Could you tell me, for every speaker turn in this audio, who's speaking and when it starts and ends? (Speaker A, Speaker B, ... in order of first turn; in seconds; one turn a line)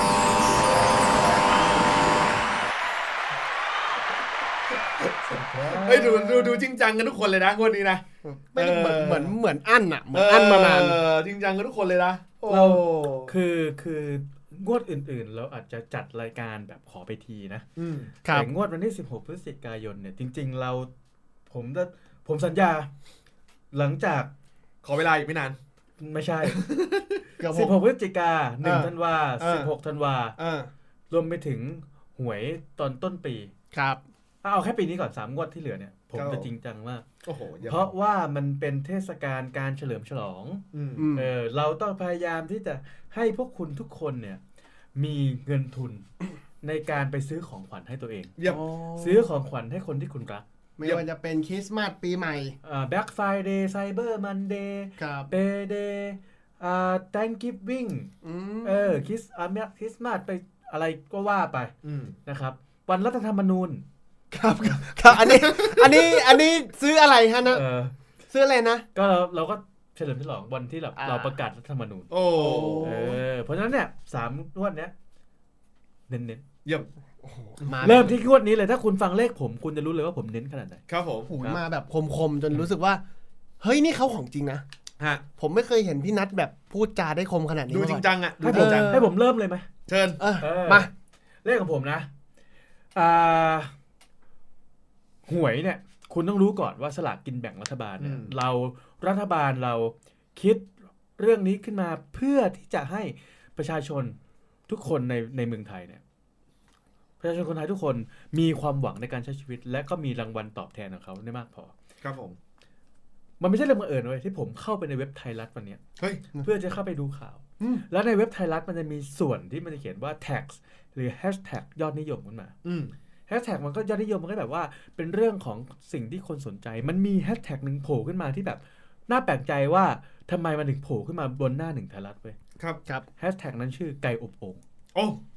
Speaker A: 5.0-8.0
Speaker B: 5.3-6.6
Speaker C: 8.2-11.0
Speaker A: 8.6-9.3
Speaker A: 10.1-13.3
Speaker B: 12.5-17.6
Speaker A: 17.8-18.1
Speaker C: 18.2-18.5
Speaker B: 18.3-20.9
Speaker B: 21.5-22.9
Speaker B: 23.7-24.3
Speaker A: 24.8-25.6
Speaker B: 26.0-26.6
Speaker A: 26.5-27.2
Speaker C: 27.4-27.8
Speaker B: 27.5-30.4
Speaker C: 28.6-29.7
Speaker C: 30.4-30.7
Speaker B: 31.1-33.5
Speaker C: 33.7-34.0
Speaker B: 34.4-37.0
Speaker A: 36.1-36.5
Speaker A: 37.2-37.9
Speaker B: 37.6-44.4
Speaker A: 40.7-41.1
Speaker C: 41.0-41.3
Speaker B: 45.0-46.0
Speaker B: 46.6-50.4
Speaker A: 48.4-48.8
Speaker C: 50.8-52.6
Speaker B: 52.6-58.1
Speaker C: 55.0-55.3
Speaker C: 58.2-59.0
Speaker B: 58.6-61.7
Speaker A: 61.8-62.2
Speaker B: 62.3-63.8
Speaker C: 64.3-67.6
Speaker A: 65.2-66.1
Speaker B: 67.5-68.0
Speaker C: 68.3-68.8
Speaker B: 69.0-72.1
Speaker C: 71.0-71.4
Speaker A: 72.1-73.2
Speaker C: 72.3-73.2
Speaker B: 72.8-74.9
Speaker B: 76.1-76.4
Speaker C: 77.2-78.2
Speaker A: 77.6-78.0
Speaker B: 77.8-80.8
Speaker A: 80.9-81.3
Speaker C: 81.3-83.0
Speaker C: 83.6-84.6
Speaker C: 85.4-89.1
Speaker A: 87.7-89.0
Speaker B: 88.4-89.7
Speaker A: 89.9-90.2
Speaker C: 90.2-90.9
Speaker B: 90.4-90.9
Speaker B: 91.4-92.1
Speaker B: 92.9-93.7
Speaker B: 95.3-104.2
Speaker A: 98.0-98.3
Speaker B: 104.7-106.0
Speaker B: 107.2-111.7
Speaker A: 112.0-112.4
Speaker B: 113.4-115.8
Speaker A: 116.0-116.2
Speaker B: 116.4-122.5
Speaker C: 117.6-117.8
Speaker A: 122.7-122.9
Speaker B: 123.3-132.4
Speaker B: 133.2-134.6
Speaker A: 134.9-135.2